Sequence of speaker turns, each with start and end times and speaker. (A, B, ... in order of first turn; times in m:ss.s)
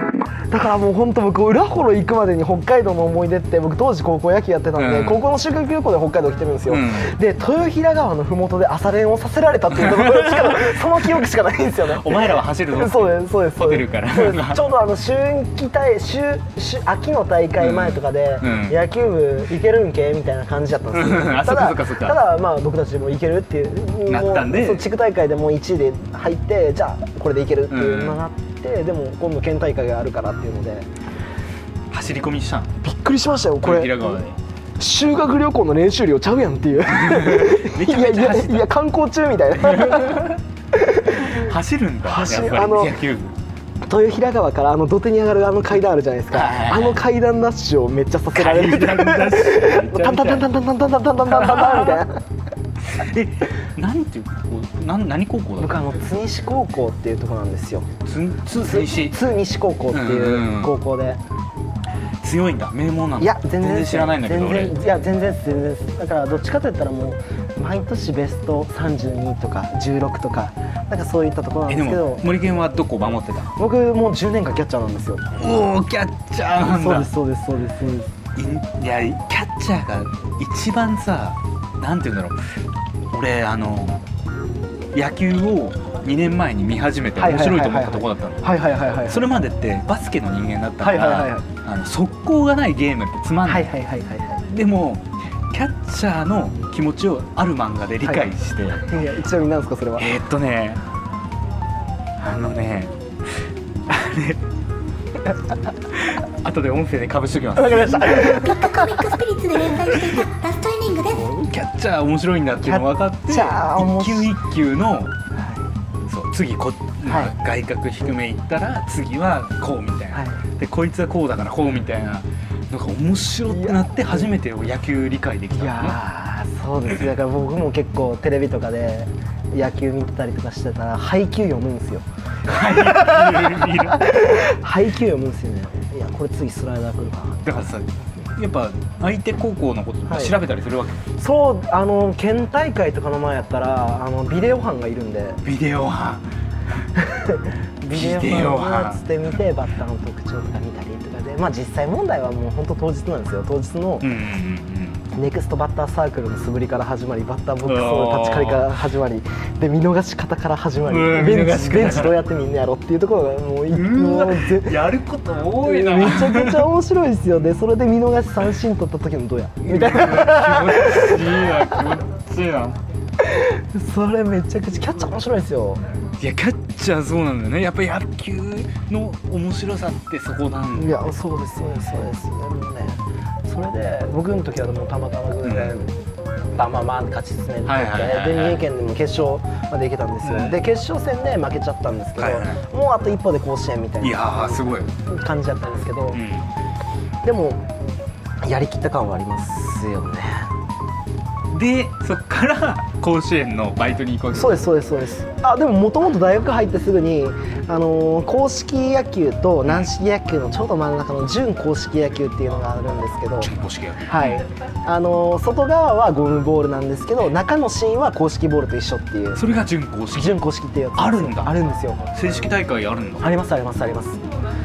0:00.5-0:30.9 A
0:04.8-0:05.2 B
0:06.7-0:07.1 B
0:09.7-0:10.8 B
0:11.9-0:14.6 B
0:17.6-0:18.8 B
0:20.9-0:22.2 B
0:24.1-0:24.9 B
0:27.7-0:28.2 B
0:31.9-0:32.8 B
0:32.8-0:34.2 A
0:33.6-0:34.4 B
0:34.8-0:41.4 A
0:36.9-0:38.7 B
0:39.5-0:40.4 B
0:41.2-0:43.3 B
0:42.0-0:43.0 A
0:43.8-0:52.2 A
0:46.3-0:47.0 B
0:48.3-0:50.5 B
0:51.2-0:52.0 B
0:52.9-0:55.8 B
0:55.6-0:57.9 A
0:58.0-0:59.2 B
0:58.6-1:01.2 A
0:59.9-1:00.7 B
1:02.2-1:04.8 B
1:03.2-1:12.2 A
1:11.7-1:13.6 B
1:13.6-1:15.3 A
1:15.4-1:17.1 B
1:16.6-1:18.1 A
1:18.4-1:22.4 B
1:23.1-1:24.0 B
1:24.9-1:33.7 B
1:27.2-1:29.3 A
1:30.8-1:31.5 A
1:33.5-1:34.4 A
1:34.5-1:38.9 B
1:38.9-1:40.1 A
1:40.0-1:40.8 B
1:42.2-1:43.3 B
1:43.9-1:44.4 B
1:45.9-1:48.6 B
1:47.6-1:48.7 A
1:48.2-1:51.3 C
1:51.1-1:55.2 B
1:52.6-1:54.3 A
1:55.4-1:55.6 A
1:56.1-2:06.0 B
1:57.0-1:57.4 A
2:00.1-2:00.4 A
2:03.5-2:04.3 A
2:05.5-2:17.7 A
2:12.5-2:14.2 B
2:17.4-2:21.1 B
2:20.1-2:20.4 A
2:21.2-2:25.4 A
2:25.4-2:26.3 B
2:27.0-2:34.1 A
2:27.9-2:29.0 B
2:34.0-2:35.1 B
2:35.1-2:44.9 A
2:37.6-2:38.7 B
2:40.9-2:42.2 B
2:43.7-2:46.7 B
2:45.6-2:51.7 A
2:49.6-2:52.8 B
2:53.2-2:55.8 A
2:56.2-3:01.1 B
3:00.8-3:05.9 A
3:05.4-3:05.7 B
3:06.6-3:16.2 A
3:07.6-3:08.7 B
3:10.2-3:10.6 B
3:12.2-3:12.6 B
3:14.0-3:14.9 B
3:16.1-3:16.5 B
3:17.2-3:17.6 A
3:18.4-3:20.5 A
3:21.5-3:24.7 B
3:24.3-3:33.5 A
3:33.4-3:34.4 B
3:34.0-3:39.4 A
3:39.4-3:40.4 B
3:40.1-3:42.0 A
3:41.0-3:41.5 B
3:42.1-3:43.2 B
3:43.2-3:44.2 A